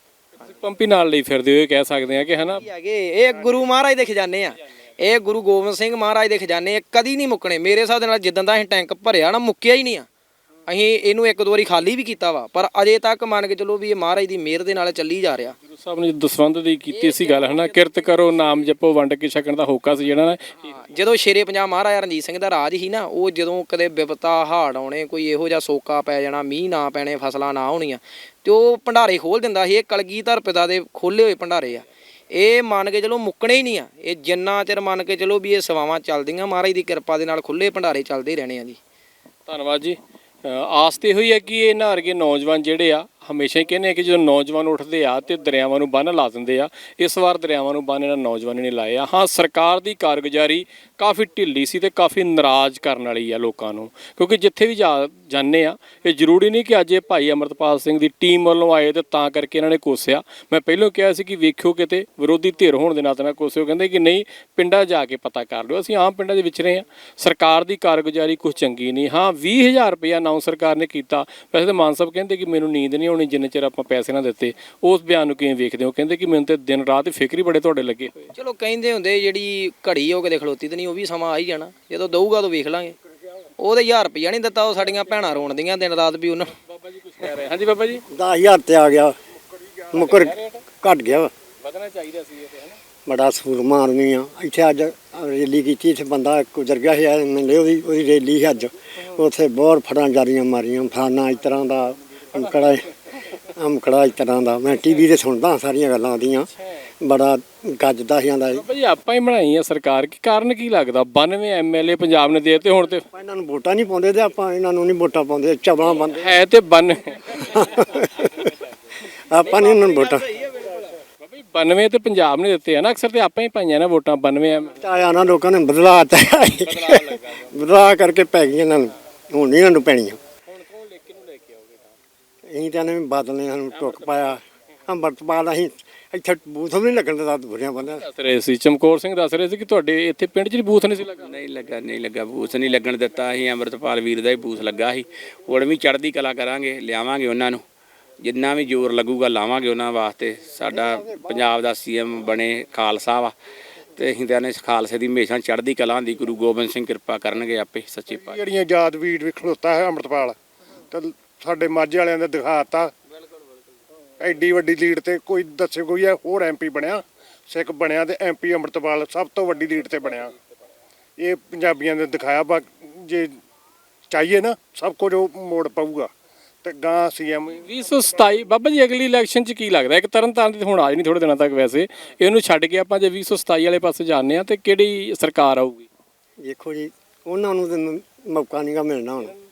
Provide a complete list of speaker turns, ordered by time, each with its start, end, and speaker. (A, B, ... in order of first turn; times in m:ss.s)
0:00.4-0:02.6 A
0:02.6-0:10.1 B
0:10.7-0:15.6 B
0:15.7-0:20.7 A
0:17.0-0:18.2 B
0:20.7-0:38.8 B
0:39.5-1:18.3 A
1:18.3-1:23.0 B
1:23.6-1:26.5 B
1:26.7-1:28.0 A
1:28.1-1:29.2 C
1:29.9-1:31.3 C
1:29.9-1:30.6 A
1:31.6-1:32.7 A
1:33.0-1:42.8 C
1:43.5-1:46.5 C
1:47.0-1:48.6 C
1:48.5-1:53.0 A
1:53.1-1:56.3 C
1:56.1-1:57.9 A
1:57.3-1:58.5 C
1:59.3-2:00.5 C
2:01.2-2:04.7 A
2:04.8-2:10.2 C
2:06.7-2:07.4 A
2:10.5-2:11.9 A
2:12.5-2:18.1 C
2:18.0-2:21.3 A
2:21.1-2:27.6 D
2:28.2-2:33.3 D
2:30.8-2:31.1 C
2:34.0-2:38.4 D
2:38.2-2:40.4 E
2:40.9-2:42.9 E
2:44.2-2:50.3 E
2:51.2-2:53.3 E
2:54.1-2:56.1 E
2:56.6-2:57.6 E
2:57.6-3:05.9 A
3:06.4-3:09.3 C